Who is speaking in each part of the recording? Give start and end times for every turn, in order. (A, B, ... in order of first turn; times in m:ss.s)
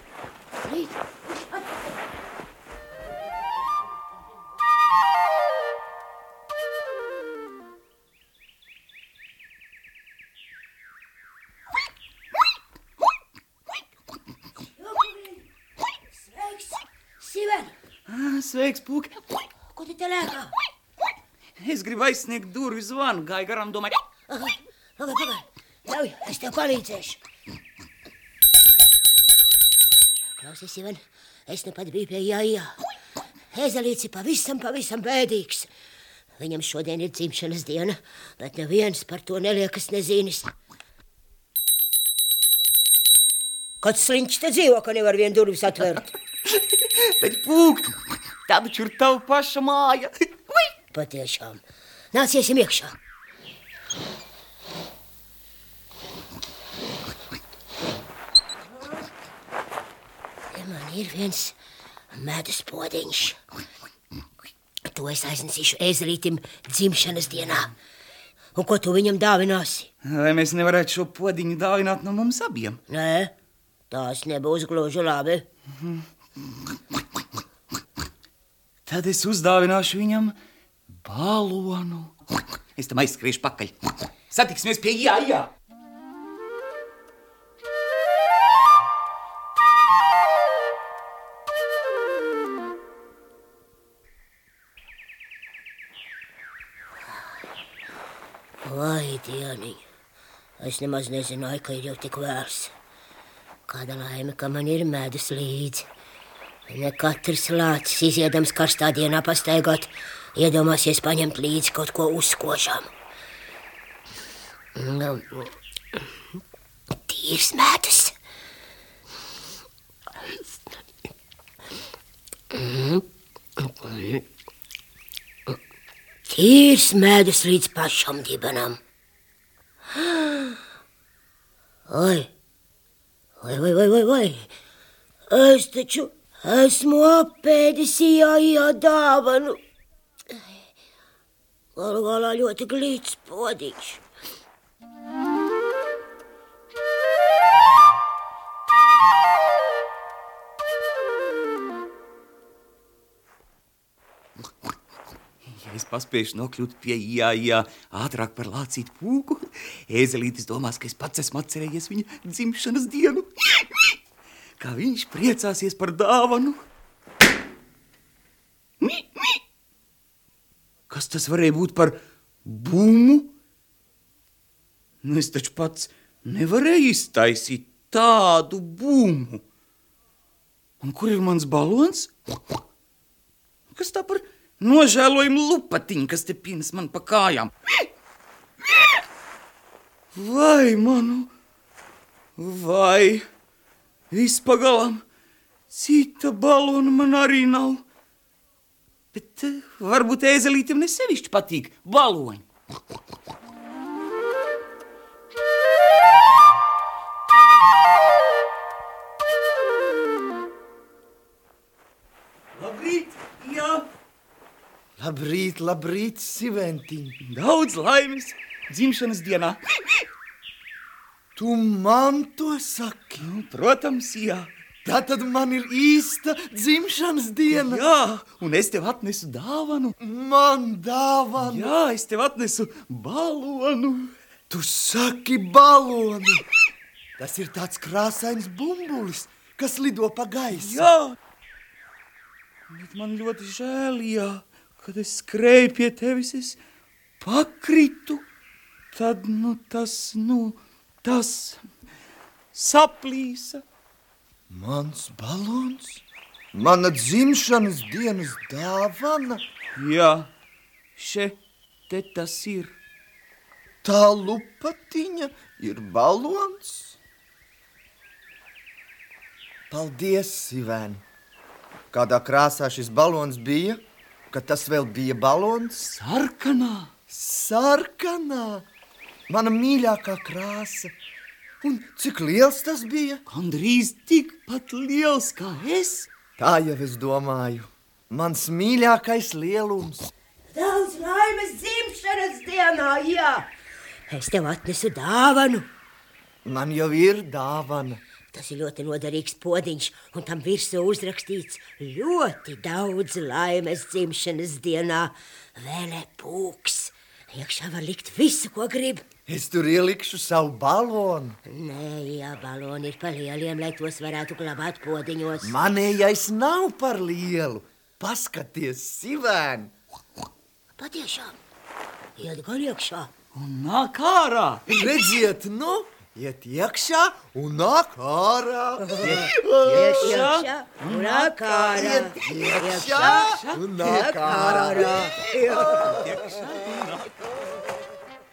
0:00.6-0:01.9 A
0:14.8-0:15.5 A
0:16.1-0:17.7 A
0:18.1-0:19.2 B
0:19.7-0:20.6 A
0:21.6-0:24.0 B
0:24.3-0:27.2 A
0:30.4-0:32.8 A
0:33.5-0:35.7 A
0:36.4-0:40.5 A
0:43.8-0:46.1 A
0:46.5-0:47.9 B
0:48.5-0:50.6 B
0:50.9-0:53.0 A
1:00.5-1:01.6 A
1:02.1-1:03.4 A
1:04.9-1:07.7 A
1:08.6-1:09.9 A
1:10.0-1:12.8 B
1:12.9-1:13.3 A
1:13.9-1:15.5 A
1:18.9-1:20.4 B
1:21.0-1:22.2 B
1:22.8-1:23.8 B
1:24.3-1:25.5 B
1:38.6-1:39.8 A
1:40.6-1:42.7 A
1:43.7-1:45.9 A
1:46.7-1:52.9 A
1:54.8-1:55.5 A
1:57.1-1:58.2 A
2:02.5-2:03.0 A
2:03.6-2:04.2 A
2:06.3-2:08.8 A
2:09.9-2:10.6 A
2:11.9-2:12.3 A
2:13.4-2:14.5 A
2:15.3-2:19.6 A
2:21.8-2:24.0 A
2:35.5-2:44.0 B
2:44.6-2:46.6 B
2:48.8-2:49.4 B
2:50.9-2:53.3 B
2:55.0-2:59.4 B
3:00.8-3:02.1 B
3:03.7-3:07.5 B
3:10.1-3:11.3 B
3:12.4-3:13.2 B
3:14.1-3:15.0 B
3:15.7-3:17.8 B
3:19.1-3:22.4 B
3:32.6-3:33.9 B
3:35.0-3:37.2 C
3:37.2-3:40.1 B
3:41.4-3:43.3 C
3:43.2-3:44.5 B
3:44.8-3:47.8 C
3:47.5-3:49.9 B
3:50.0-3:51.7 C
3:51.4-3:54.1 B
3:54.5-3:56.4 C
3:57.2-4:00.9 C
4:00.5-4:01.2 B
4:02.7-4:06.6 B
4:07.2-4:08.2 B
4:08.9-4:11.6 B
4:12.5-4:13.6 B
4:14.5-4:19.4 C
4:19.8-4:20.3 B
4:21.0-4:21.4 B
4:21.9-4:22.8 B
4:23.8-4:27.0 C
4:29.7-4:31.0 C
4:31.9-4:35.8 C
4:35.8-4:36.9 B
4:37.1-4:38.6 C
4:39.3-4:40.9 C
4:41.6-4:43.2 C
4:43.3-4:46.1 B
4:46.4-4:50.1 C
4:50.5-4:53.5 A
4:54.1-4:55.7 A
4:56.4-4:58.0 C
4:58.3-5:09.0 A
5:09.3-5:11.4 C
5:11.5-5:15.6 A
5:15.4-5:19.7 C
5:20.8-5:21.4 A
5:22.2-5:23.1 A
5:23.3-5:24.6 B
5:24.7-5:30.2 C
5:28.9-5:36.0 A
5:29.4-5:31.6 B
5:31.7-5:35.1 C
5:32.3-5:33.7 B
5:35.5-5:37.3 B